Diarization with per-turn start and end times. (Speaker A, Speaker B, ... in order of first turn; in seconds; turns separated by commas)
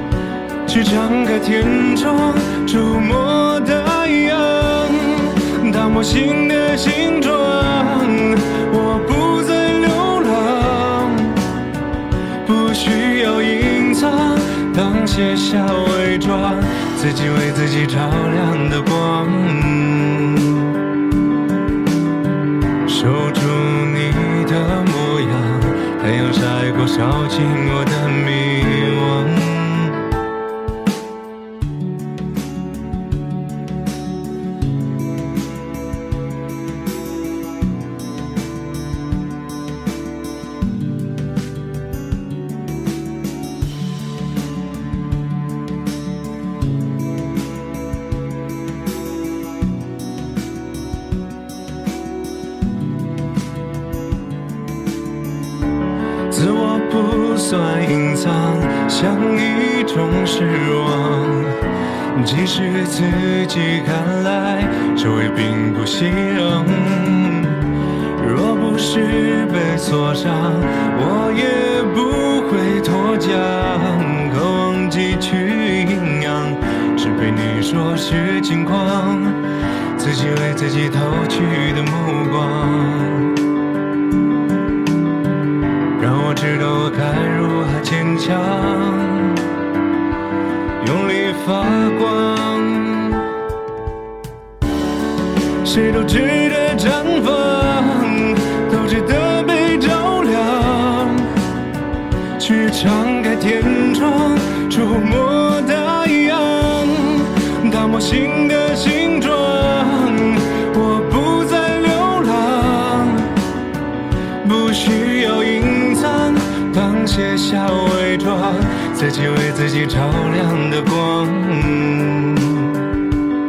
Speaker A: 0.7-11.4, Speaker A: 12.4-20.8, Speaker A: 22.9-30.0, Speaker A: 56.3-61.6, Speaker A: 62.1-79.4, Speaker A: 80.0-83.4, Speaker A: 86.0-89.5, Speaker A: 90.8-93.3, Speaker A: 95.6-101.3, Speaker A: 102.4-113.3, Speaker A: 114.4-122.9